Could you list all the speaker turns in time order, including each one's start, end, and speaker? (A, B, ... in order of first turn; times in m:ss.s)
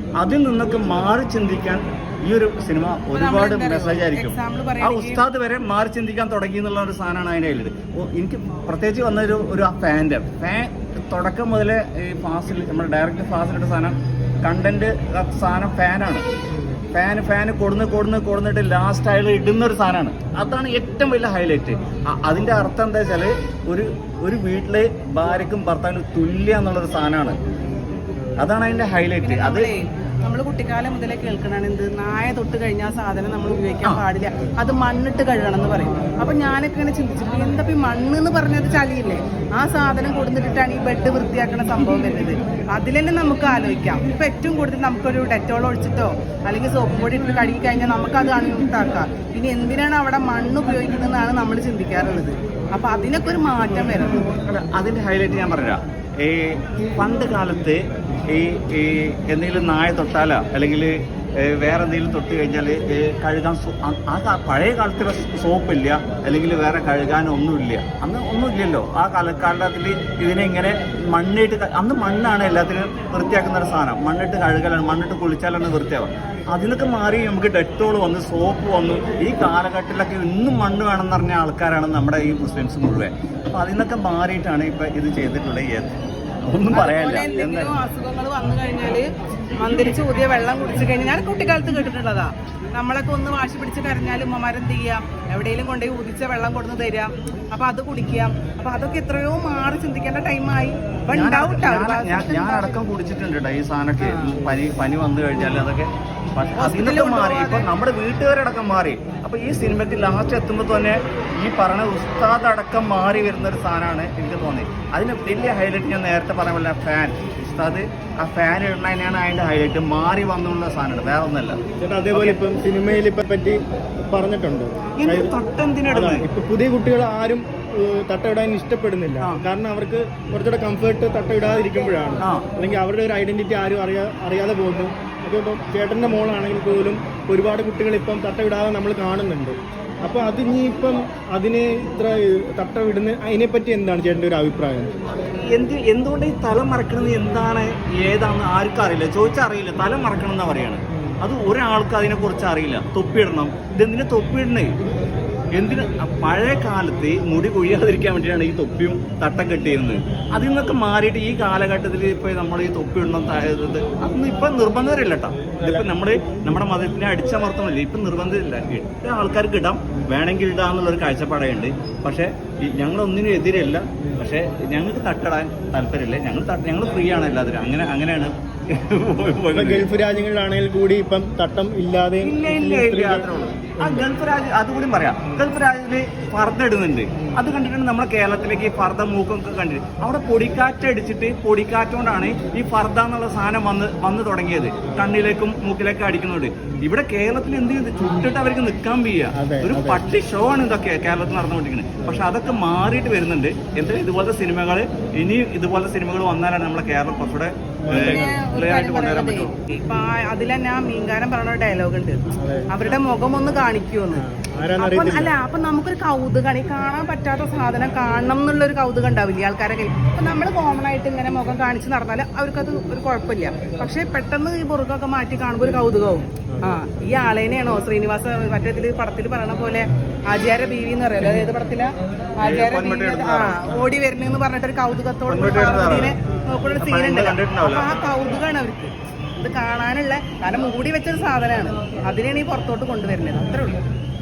0:00.2-0:16.2 A
0:03.1-0:05.2 B
0:16.9-0:27.4 A
0:28.4-0:29.7 A
0:29.2-0:54.2 B
0:54.4-1:27.7 A
1:26.7-1:42.8 B
1:41.1-2:01.6 A
1:44.0-1:44.3 B
1:46.6-1:47.7 B
2:01.8-2:05.3 C
2:02.1-2:02.4 A
2:05.0-2:06.2 A
2:05.9-2:24.9 C
2:12.2-2:12.4 A
2:25.2-2:34.7 A
2:35.6-2:59.9 A
2:45.6-2:45.9 C
2:59.5-3:03.3 C
3:02.2-3:29.5 A
3:03.8-3:04.1 C
3:19.3-3:20.0 C
3:27.8-3:28.3 C
3:27.9-3:34.2 B
3:32.4-3:32.7 C
3:34.1-3:35.3 C
3:34.8-4:03.8 B
3:52.4-3:53.8 A
3:55.3-3:56.1 A
3:56.8-3:57.9 A